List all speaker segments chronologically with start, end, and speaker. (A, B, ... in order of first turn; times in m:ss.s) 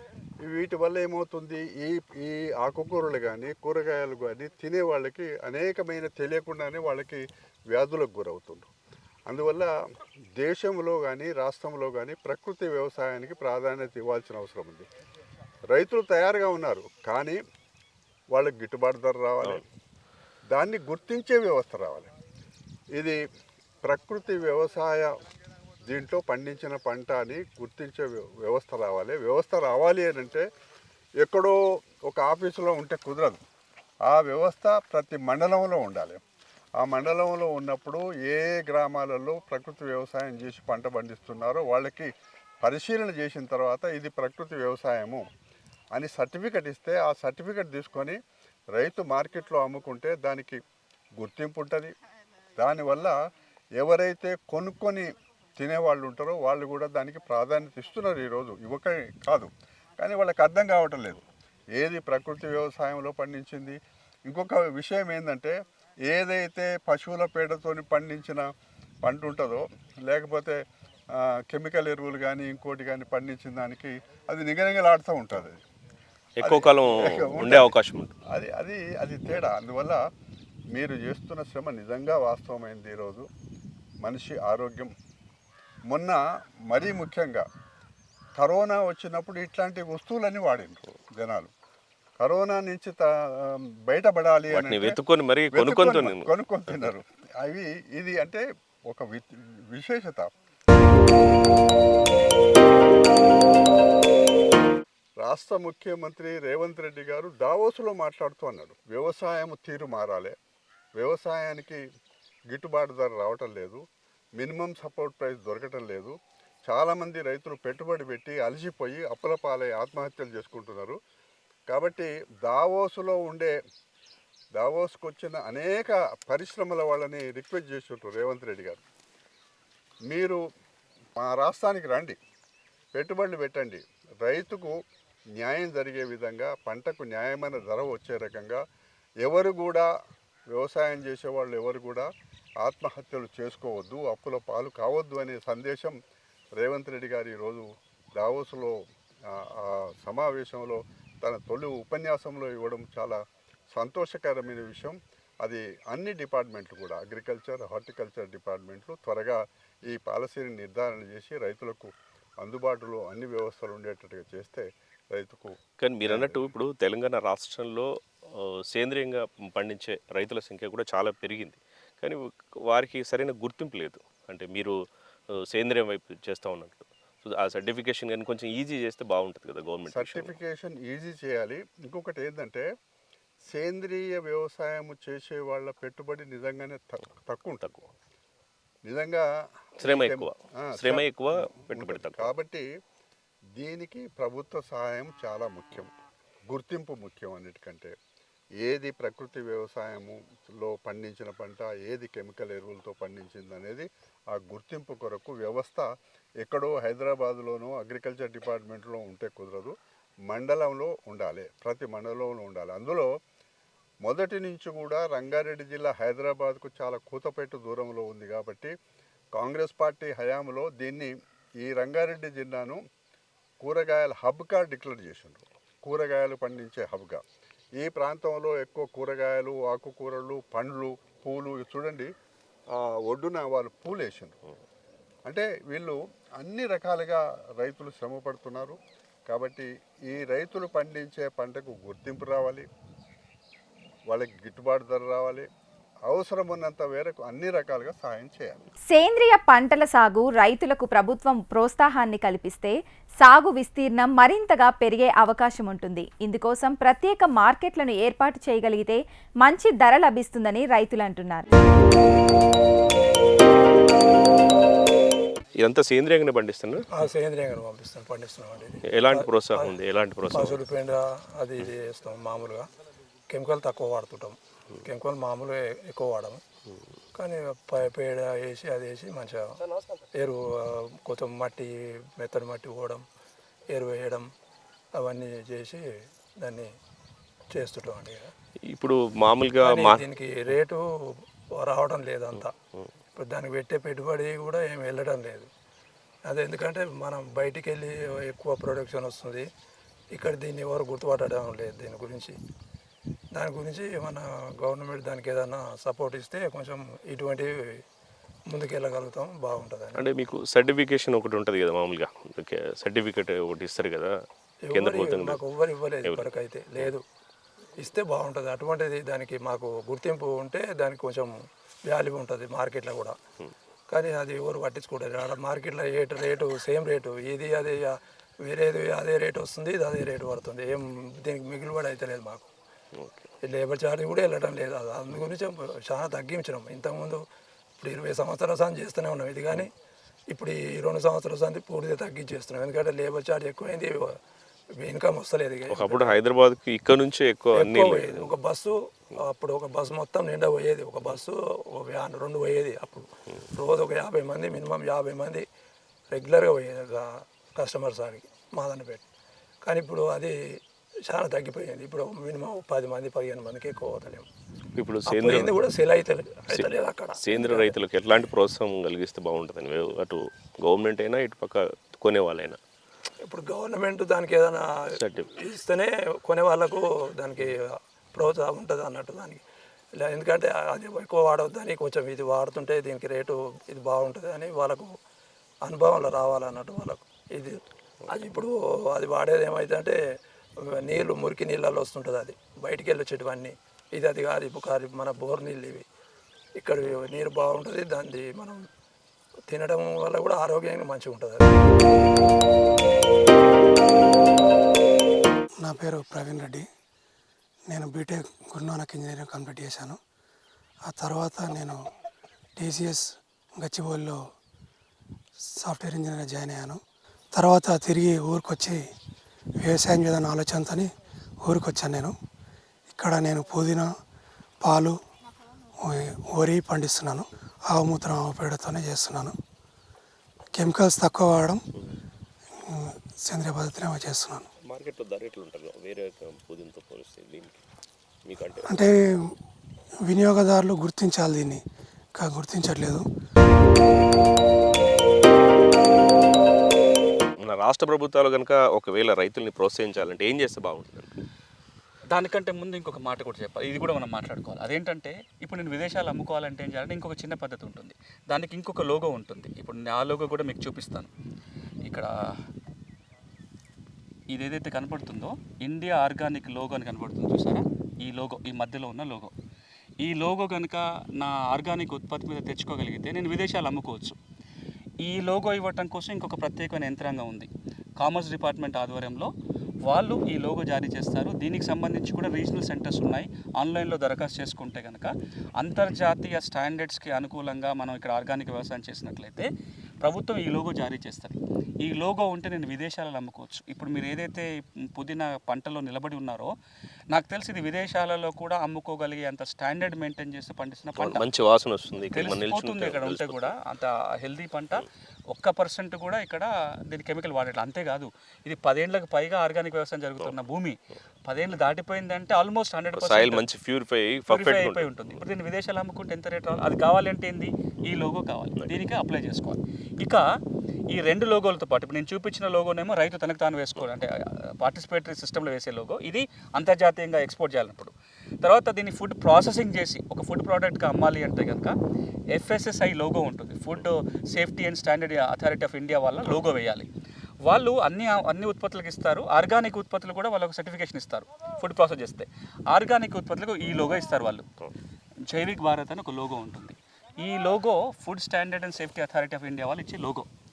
0:00.4-0:08.7 A
0:09.3-0:09.7 A
0:10.4-0:14.9 A
0:15.7-0:17.4 A
0:18.3-0:19.6 A
0:20.5-0:22.1 A
0:23.8-0:25.1 A
0:25.8-0:30.5 A
0:31.2-0:33.4 A
0:34.0-0:36.2 A
0:36.8-0:45.3 A
0:45.9-0:48.2 A
0:48.7-0:50.6 A
0:51.2-0:51.9 A
0:52.6-0:53.2 A
0:53.8-1:01.2 A
1:01.8-1:08.5 A
1:09.0-1:15.6 A
1:16.4-1:18.1 B
1:16.4-1:17.7 A
1:18.3-1:20.0 A
1:20.7-1:23.3 A
1:24.0-1:24.9 A
1:25.9-1:27.5 A
1:28.4-1:31.5 A
1:32.2-1:35.0 A
1:34.5-1:36.3 B
1:35.5-1:40.3 A
1:45.2-1:50.3 A
1:51.0-1:51.8 A
1:52.5-1:53.8 A
1:54.4-1:56.2 A
1:56.7-2:01.0 A
2:01.7-2:03.5 A
2:04.6-2:08.8 A
2:10.1-2:10.4 A
2:11.2-2:12.2 A
2:12.9-2:14.8 A
2:15.4-2:18.6 A
2:19.2-2:19.9 A
2:20.5-2:22.1 A
2:22.6-2:26.0 A
2:26.6-2:33.2 A
2:33.7-2:46.4 A
2:45.8-2:54.8 B
2:55.3-3:00.3 B
2:59.9-3:02.7 A
3:03.5-3:07.9 A
3:08.8-3:09.3 A
3:09.8-3:12.6 A
3:09.8-3:12.3 B
3:13.6-3:15.9 A
3:16.5-3:17.9 A
3:18.6-3:25.9 A
3:26.4-3:29.7 A
3:30.3-3:33.1 A
3:34.0-3:38.7 A
3:39.4-3:42.8 A
3:43.6-3:47.2 A
3:47.8-3:52.1 A
3:52.7-3:54.4 A
3:55.3-4:02.7 A
4:04.1-4:05.5 A
4:06.1-4:08.6 A
4:08.9-4:21.5 C
4:25.6-4:26.9 B
4:26.9-4:29.7 D
4:28.8-4:30.6 B
4:30.3-4:32.7 D
4:33.3-4:36.4 D
4:37.1-4:39.6 D
4:40.1-4:43.0 D
4:43.7-4:44.3 D
4:45.0-4:46.7 D
4:47.5-4:48.3 D
4:48.6-4:50.0 B
4:49.6-4:52.5 D
4:52.4-4:52.9 B
4:53.1-4:55.5 D
4:56.3-4:59.5 D
5:00.1-5:02.4 D
5:03.3-5:07.8 D
5:08.5-5:10.0 D
5:10.0-5:14.1 B
5:14.6-5:17.0 D
5:14.7-5:15.4 B
5:16.0-5:16.9 B
5:17.8-5:23.2 D
5:23.9-5:32.5 D
5:32.9-5:33.3 B
5:33.4-5:37.2 D
5:37.8-5:39.7 D
5:40.3-5:44.2 D
5:44.8-5:46.2 D
5:45.7-5:48.3 B
5:47.5-5:55.4 D
5:56.1-5:59.0 D
5:59.6-6:04.3 D
6:04.8-6:05.6 B
6:05.1-6:07.8 D
6:06.5-6:12.6 B
6:13.2-6:19.4 D
6:14.9-6:15.3 B
6:20.0-6:24.9 D
6:25.6-6:30.0 D
6:30.6-6:35.8 D
6:36.6-6:38.6 D
6:39.5-6:41.6 D
6:45.6-6:46.6 E
6:47.7-6:50.0 E
6:50.9-6:51.8 E
6:52.6-6:54.2 E
6:55.6-6:56.8 E
6:57.3-6:58.8 E
6:59.6-7:00.9 E
7:01.4-7:02.1 E
7:02.9-7:03.9 E
7:04.6-7:05.0 E
7:05.8-7:09.4 E
7:10.5-7:11.6 E
7:12.6-7:14.5 E
7:14.6-7:17.6 B
7:18.2-7:18.7 B
7:18.6-7:19.3 E
7:20.0-7:21.6 E
7:22.2-7:23.0 E
7:27.4-7:31.1 B
7:32.1-7:41.1 F
7:41.8-7:42.3 F
7:44.3-7:49.3 F
7:50.0-7:54.2 F
7:55.0-7:59.3 F
7:59.8-8:09.5 F
8:10.0-8:16.5 F
8:17.1-8:21.2 F
8:21.0-8:23.5 B
8:22.1-8:33.4 F
8:32.9-8:35.2 B
8:34.3-8:40.3 F
8:40.9-8:51.7 F
8:52.3-8:56.9 F
8:57.4-9:04.5 F
9:05.3-9:10.3 F